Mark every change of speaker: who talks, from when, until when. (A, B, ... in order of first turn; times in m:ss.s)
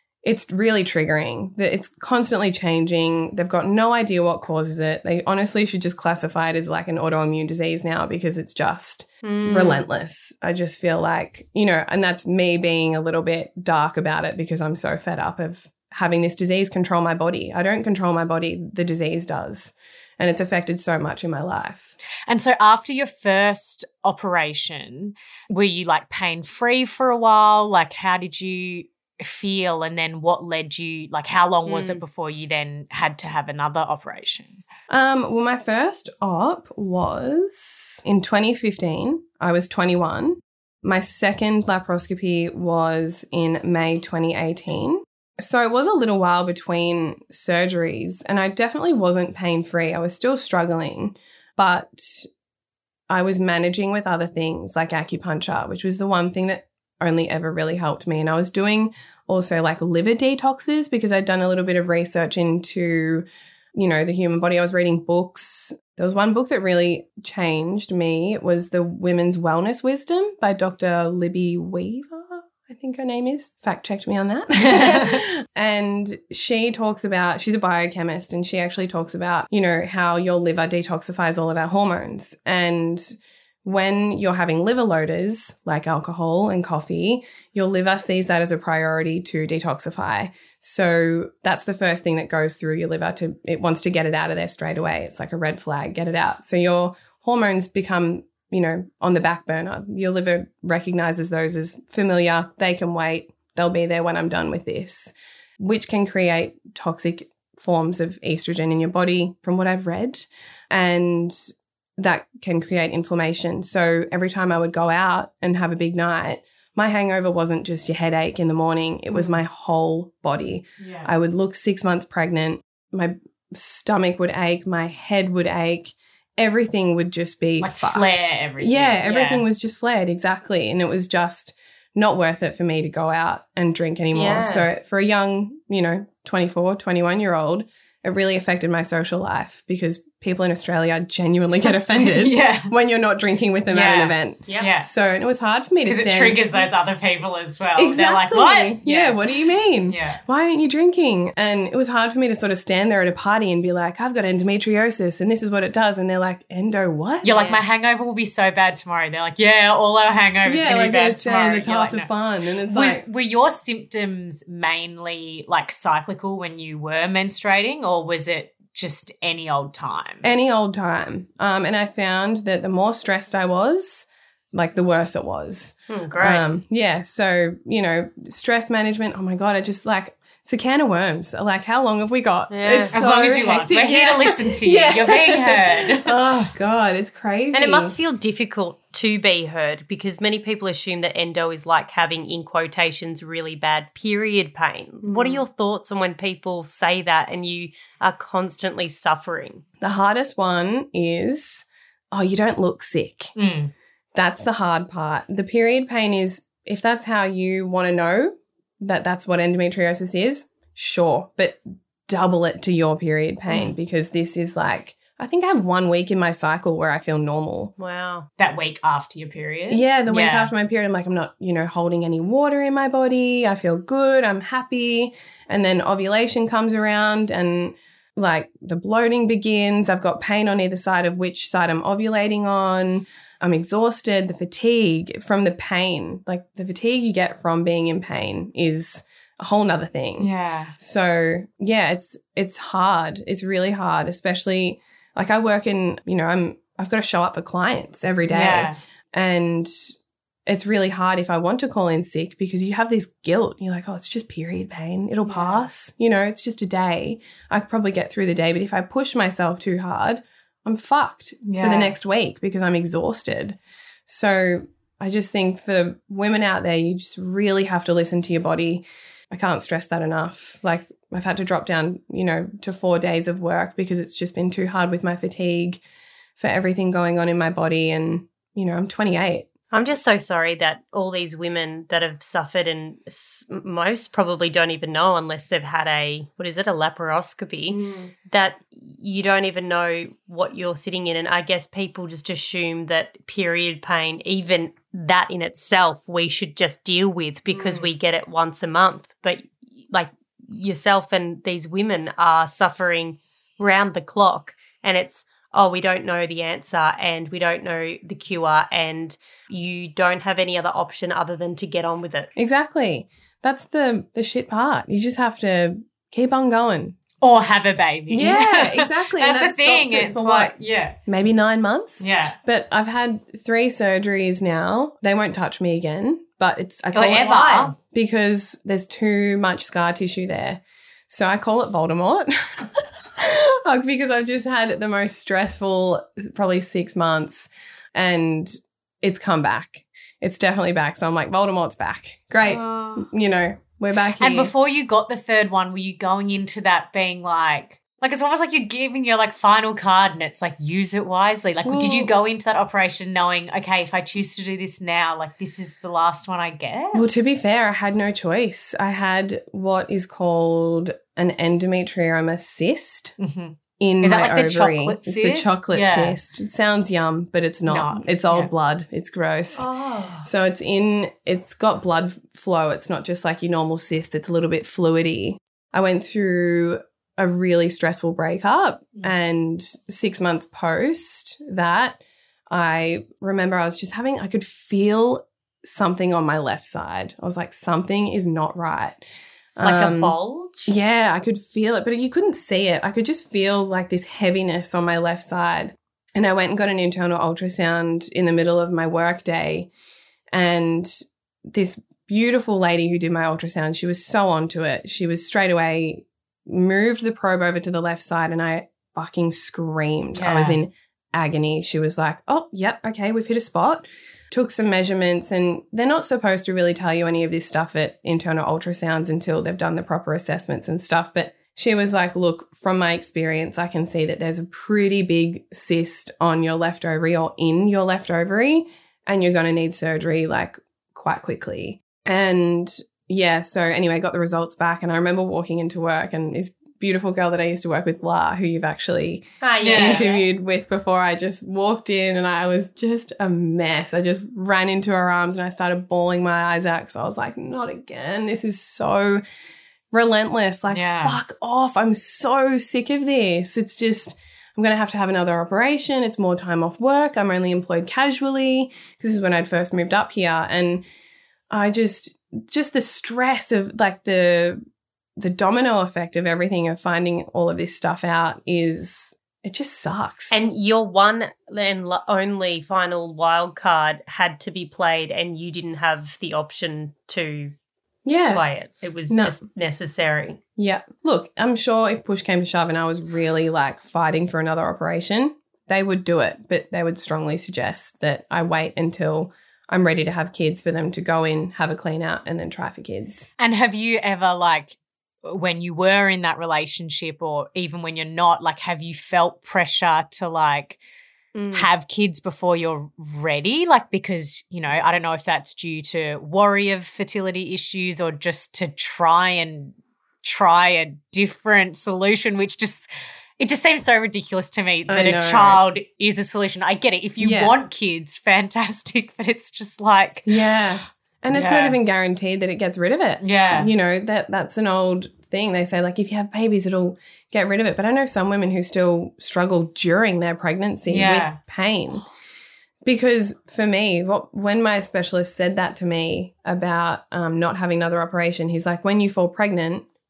0:00.2-0:22.0 A
0:09.2-0:09.8 B
0:22.3-0:34.6 C
0:31.6-0:32.0 B
0:34.9-0:52.3 A
0:53.1-1:51.4 A
1:14.7-1:15.2 C
1:52.0-2:26.7 A
2:00.8-2:01.1 C
2:07.6-2:09.4 C
2:14.1-2:14.7 B
2:21.7-2:22.7 C
2:23.7-2:24.9 C
2:24.5-2:24.7 B
2:25.9-2:29.2 C
2:27.8-2:37.4 A
2:29.9-2:30.2 C
2:37.2-2:42.1 C
2:37.3-2:37.6 B
2:40.4-2:43.0 A
2:42.7-2:50.2 C
2:50.2-3:08.0 A
2:55.9-2:56.4 B
3:02.5-3:03.0 B
3:02.9-3:06.1 C
3:07.5-3:19.6 B
3:19.8-3:23.3 A
3:23.4-3:23.7 C
3:24.2-3:37.7 A
3:37.8-3:38.3 B
3:38.4-3:40.5 C
3:39.7-4:09.9 A
4:00.2-4:00.7 C
4:08.3-4:08.8 C
4:10.5-4:35.8 A
4:21.4-4:21.9 C
4:36.4-4:39.5 A
4:39.7-5:12.3 B
5:12.4-5:17.0 A
5:17.2-5:21.0 C
5:18.1-5:20.5 A
5:21.1-5:44.5 A
5:22.0-5:22.4 C
5:26.9-5:27.7 C
5:27.1-5:27.7 B
5:42.4-5:43.1 C
5:44.2-5:57.1 C
5:51.6-5:52.1 A
5:56.9-6:03.2 A
6:03.2-6:06.2 C
6:03.8-6:09.7 A
6:07.7-6:08.5 C
6:09.8-6:10.1 B
6:10.2-6:29.0 A
6:29.6-6:30.2 A
6:29.6-6:30.8 B
6:30.7-6:39.7 A
6:40.3-7:29.2 A
6:50.1-6:50.6 C
7:19.4-7:20.3 B
7:19.6-7:20.0 C
7:29.9-7:40.8 A
7:30.7-7:31.2 C
7:41.5-7:44.6 A
7:45.2-7:50.4 A
7:50.3-7:57.5 B
7:58.0-7:58.4 A
7:58.3-8:00.4 B
7:59.1-7:59.4 A
8:00.6-8:13.3 A
8:13.4-8:20.8 C
8:21.4-8:21.7 B
8:21.5-8:40.3 C
8:34.9-8:35.6 A
8:37.2-8:37.5 A
8:40.3-8:52.1 A
8:41.3-8:41.8 C
8:43.2-8:43.7 C
8:50.9-8:51.4 C
8:52.8-8:59.8 A